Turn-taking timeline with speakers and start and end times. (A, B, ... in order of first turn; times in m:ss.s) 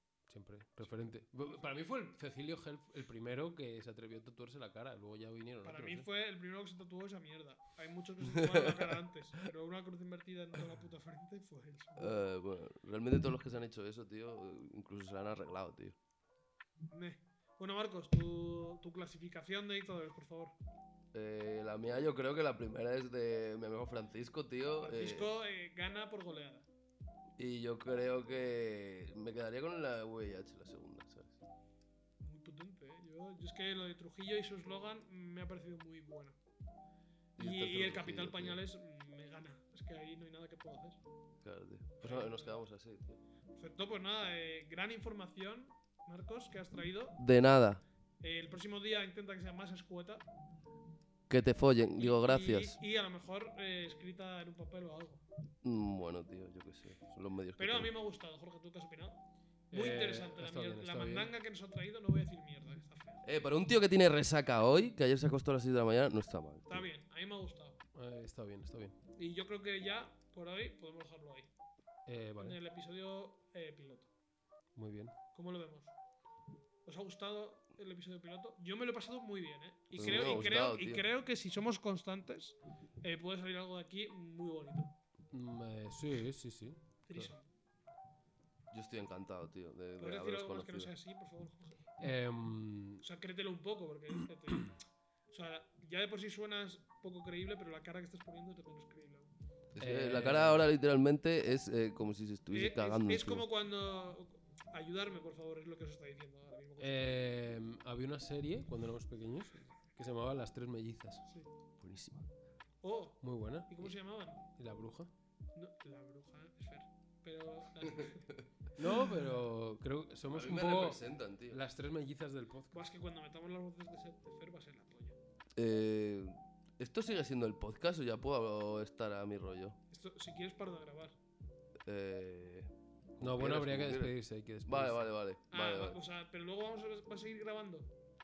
0:00.3-0:06.1 A
0:05.6-0:12.1 B
0:08.2-0:09.0 C
0:12.0-0:16.0 C
0:16.9-0:20.6 B
0:21.1-0:25.3 C
0:24.8-0:26.7 B
0:27.4-0:31.4 C
0:32.2-0:36.4 B
0:37.4-0:38.6 C
0:37.4-0:41.0 B
0:41.4-0:43.2 C
0:42.0-0:42.6 B
0:43.6-0:47.2 B
0:47.2-0:47.8 C
0:48.2-0:50.3 B
0:51.3-0:52.8 C
0:52.0-0:55.2 B
0:55.6-0:57.9 C
0:57.6-1:03.2 B
0:59.7-1:01.3 A
1:03.2-1:06.8 C
1:06.7-1:07.8 B
1:08.0-1:09.0 A
1:09.2-1:11.5 B
1:12.1-1:12.6 A
1:12.4-1:14.1 B
1:14.8-1:15.2 A
1:15.3-1:15.9 B
1:16.8-1:24.9 B
1:19.9-1:21.0 C
1:25.3-1:27.3 A
1:27.1-1:27.5 B
1:28.7-1:30.9 C
1:30.0-1:31.8 B
1:32.0-1:33.0 A
1:33.0-1:39.3 B
1:39.7-1:43.4 C
1:39.8-1:40.7 A
1:42.5-1:47.3 B
1:46.8-1:51.2 A
1:51.8-1:52.3 C
1:52.8-1:54.5 B
1:53.2-1:54.0 A
1:54.5-1:55.1 A
1:55.6-1:58.3 B
1:58.0-1:58.4 C
1:58.8-2:02.8 A
2:00.3-2:01.6 C
2:02.7-2:05.2 B
2:05.6-2:09.8 C
2:09.9-2:11.2 B
2:11.9-2:16.0 C
2:13.2-2:15.1 A
2:15.5-2:17.9 B